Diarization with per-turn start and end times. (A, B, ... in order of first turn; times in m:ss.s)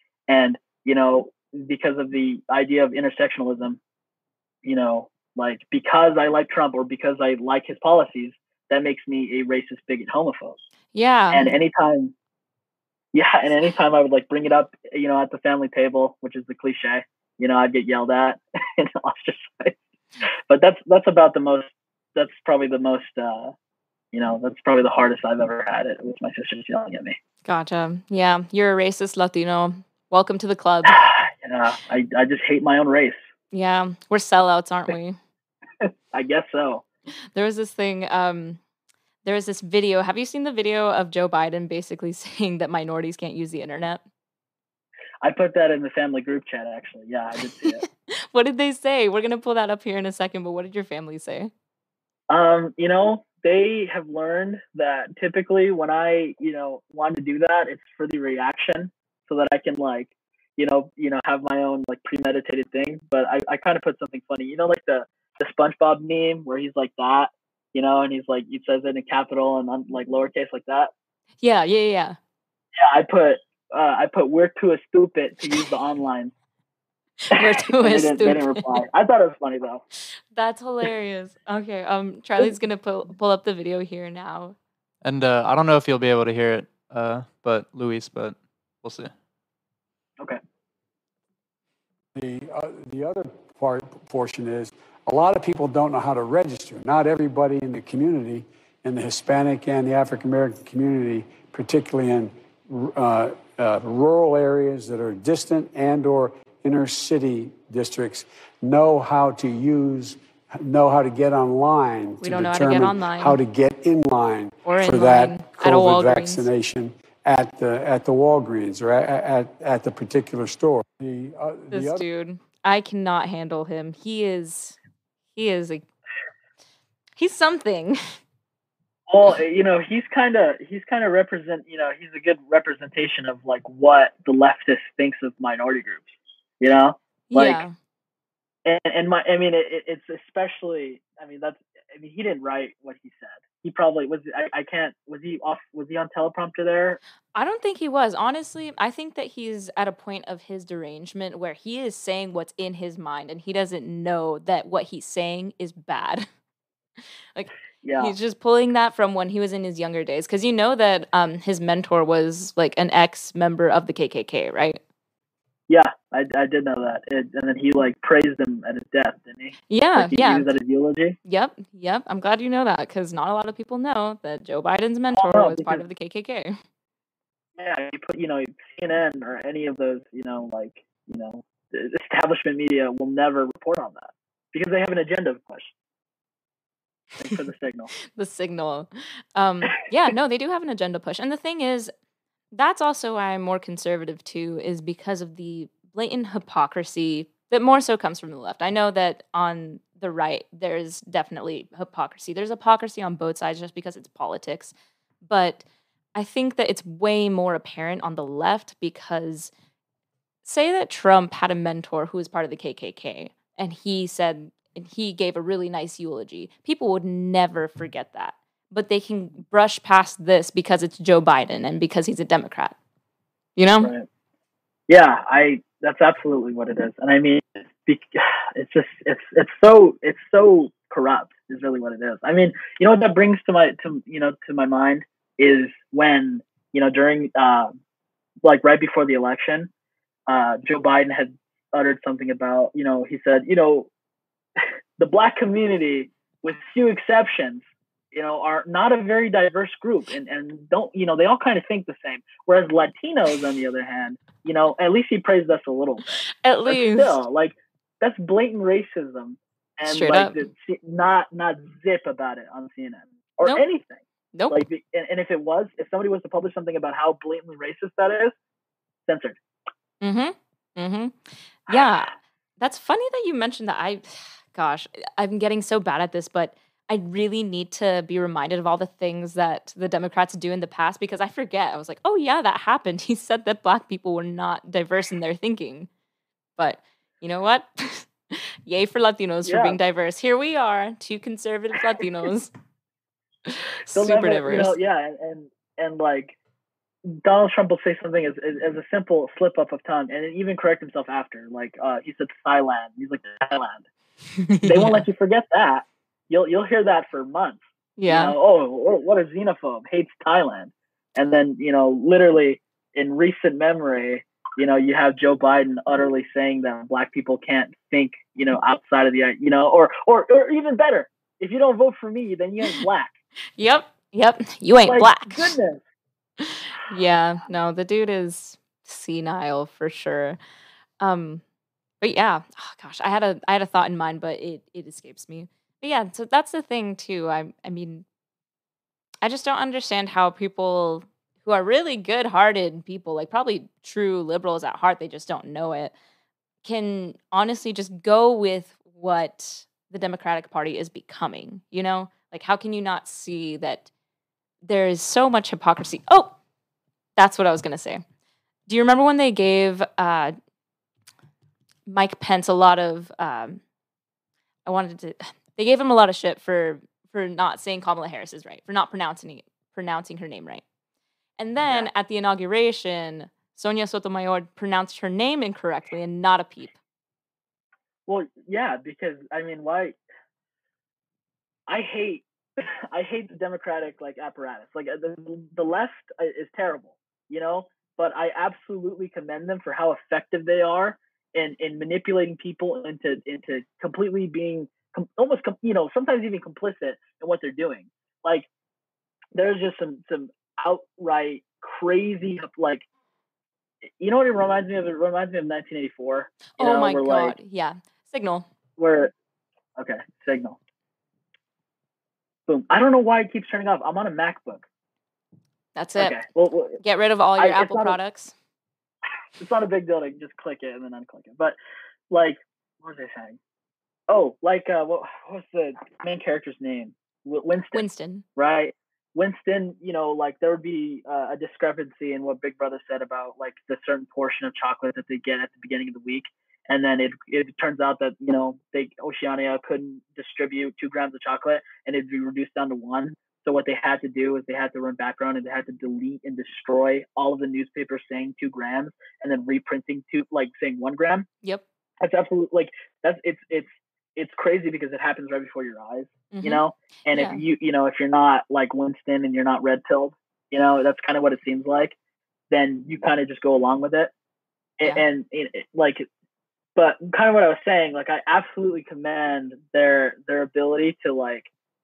0:00.3-0:03.8 A
0:04.6-0:10.6 A
0:10.9-0:11.5 B
0:11.3-0:12.1 A
0:13.1-0:19.8 A
0:20.5-0:23.5 A
0:24.1-0:27.2 A
0:27.4-0:31.0 B
0:30.8-0:33.2 A
0:33.5-0:35.2 B
0:35.8-0:36.8 A
0:37.3-0:38.6 B
0:39.2-0:44.0 B
0:45.2-0:47.8 A
0:47.8-0:51.5 B
0:52.3-1:10.9 A
1:11.4-1:12.2 B
1:12.8-1:16.3 A
1:17.3-1:18.8 B
1:17.4-1:19.8 A
1:20.3-1:24.6 B
1:25.0-1:29.1 C
1:32.1-2:02.0 D
1:52.2-1:53.4 B
1:54.6-1:56.4 B
2:01.7-2:04.8 B
2:05.4-2:05.8 B
2:07.2-2:08.0 B
2:09.1-2:17.7 A
2:17.3-2:17.8 B
2:18.6-2:27.0 A
2:27.4-2:36.3 B
2:37.4-2:44.8 B
2:37.8-2:38.1 A
2:45.7-2:51.2 A
2:49.7-2:50.5 B
2:51.3-2:56.6 B
2:55.1-2:55.8 A
2:57.6-3:05.7 A
3:07.2-3:07.9 A
3:08.1-3:11.9 B
3:12.5-3:24.7 B
3:25.2-3:25.6 B
3:26.2-3:29.5 B
3:30.4-3:42.8 B
3:43.6-3:43.9 B
3:43.8-3:44.1 A
3:44.9-3:57.7 A
3:58.4-3:59.7 A
4:00.3-4:03.9 A
4:05.0-4:28.3 A
4:16.3-4:17.2 B
4:19.9-4:20.5 B
4:24.3-4:24.6 B
4:29.1-4:29.4 A
4:30.0-4:45.9 B
4:46.6-4:52.5 B
4:49.4-4:49.8 A
4:53.5-4:54.8 B
4:53.9-4:56.4 A
4:57.1-5:03.8 A
5:04.4-5:05.0 B
5:04.6-5:23.2 A
5:08.0-5:08.4 B
5:23.6-5:25.6 B
5:24.9-5:25.8 A
5:26.4-5:30.4 B
5:31.0-5:31.4 B
5:32.0-5:38.0 B
5:39.2-5:45.9 B
5:46.6-5:53.9 B
5:54.6-5:56.4 B
5:57.2-5:58.0 B
5:58.7-6:00.4 B
6:01.9-6:03.6 B
6:04.7-6:10.6 B
6:11.4-6:16.8 B
6:18.1-6:20.0 A
6:21.7-6:38.5 A
6:39.4-6:42.8 A
6:44.0-6:47.3 A
6:46.5-6:48.5 B
6:48.8-6:49.1 A
6:49.8-6:50.6 A
6:52.5-6:54.6 A
6:55.8-6:56.2 B
6:56.0-6:56.8 A
6:56.8-6:58.3 B
6:57.4-6:58.0 A
6:59.4-7:01.6 A
7:02.1-7:03.4 A
7:04.1-7:07.8 A
7:07.7-7:08.2 B
7:08.4-7:31.3 A
7:32.0-7:42.0 A
7:36.3-7:36.6 B
7:37.1-7:37.4 B
7:42.5-7:44.1 A
7:44.8-7:46.1 A
7:46.8-7:51.5 A